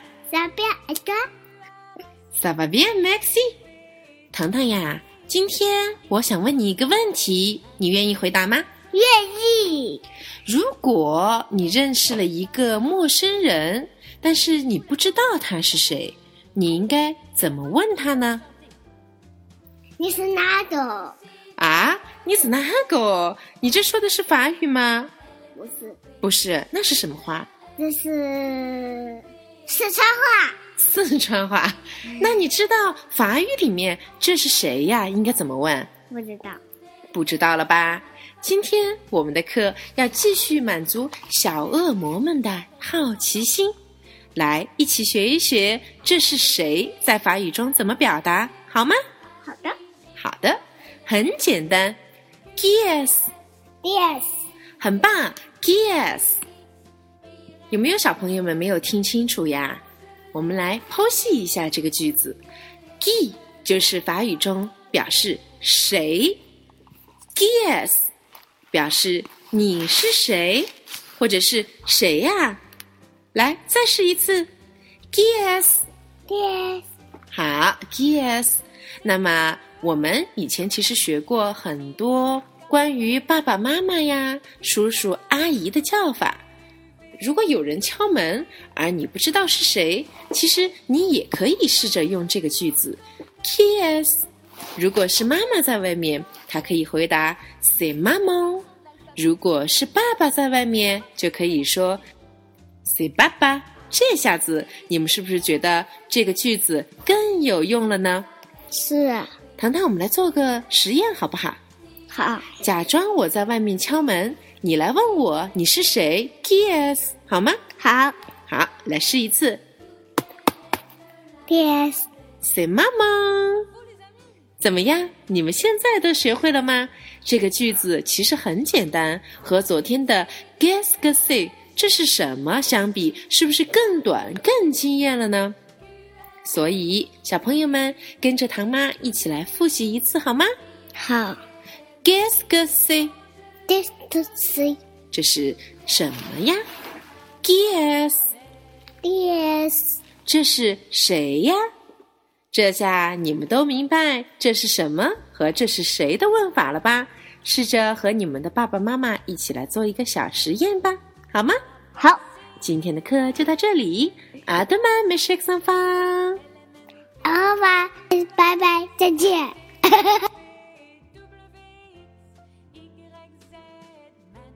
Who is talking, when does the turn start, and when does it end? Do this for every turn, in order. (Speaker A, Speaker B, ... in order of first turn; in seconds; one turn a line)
Speaker A: 0.3-1.2
Speaker B: 2.3-3.5
Speaker B: 4.3-8.7
Speaker A: 8.9-10.0
Speaker B: 10.4-18.4
Speaker A: 20.0-21.2
Speaker B: 21.6-25.1
Speaker A: 25.5-26.0
Speaker B: 26.2-27.5
Speaker A: 27.8-30.6
Speaker B: 30.8-35.9
Speaker A: 32.1-32.4
Speaker A: 36.1-36.6
Speaker B: 37.1-43.7
Speaker B: 44.3-49.0
Speaker A: 49.4-49.8
Speaker B: 50.2-52.0
Speaker B: 52.5-53.3
Speaker A: 53.8-54.4
Speaker B: 54.8-56.4
Speaker B: 57.7-59.8
Speaker B: 60.3-62.4
Speaker B: 63.0-66.4
Speaker B: 67.3-68.0
Speaker B: 68.7-72.6
Speaker B: 73.3-74.5
Speaker B: 75.1-75.8
Speaker A: 76.3-76.8
Speaker B: 77.3-86.4
Speaker B: 87.2-94.2
Speaker B: 94.8-102.0
Speaker B: 102.8-108.3
Speaker A: 108.7-109.3
Speaker B: 109.6-111.6
Speaker A: 112.1-112.5
Speaker B: 112.6-117.6
Speaker A: 117.8-118.2
Speaker B: 118.5-119.6
Speaker A: 121.5-122.0
Speaker B: 122.4-123.7
Speaker B: 124.6-135.6
Speaker B: 136.4-140.5
Speaker A: 141.0-141.4
Speaker B: 142.0-143.1
Speaker A: 143.7-144.8
Speaker B: 145.1-146.6
Speaker B: 147.4-148.3
Speaker A: 149.0-149.9
Speaker B: 150.2-151.6
Speaker B: 152.5-161.6
Speaker B: 162.6-166.4
Speaker A: 167.2-170.2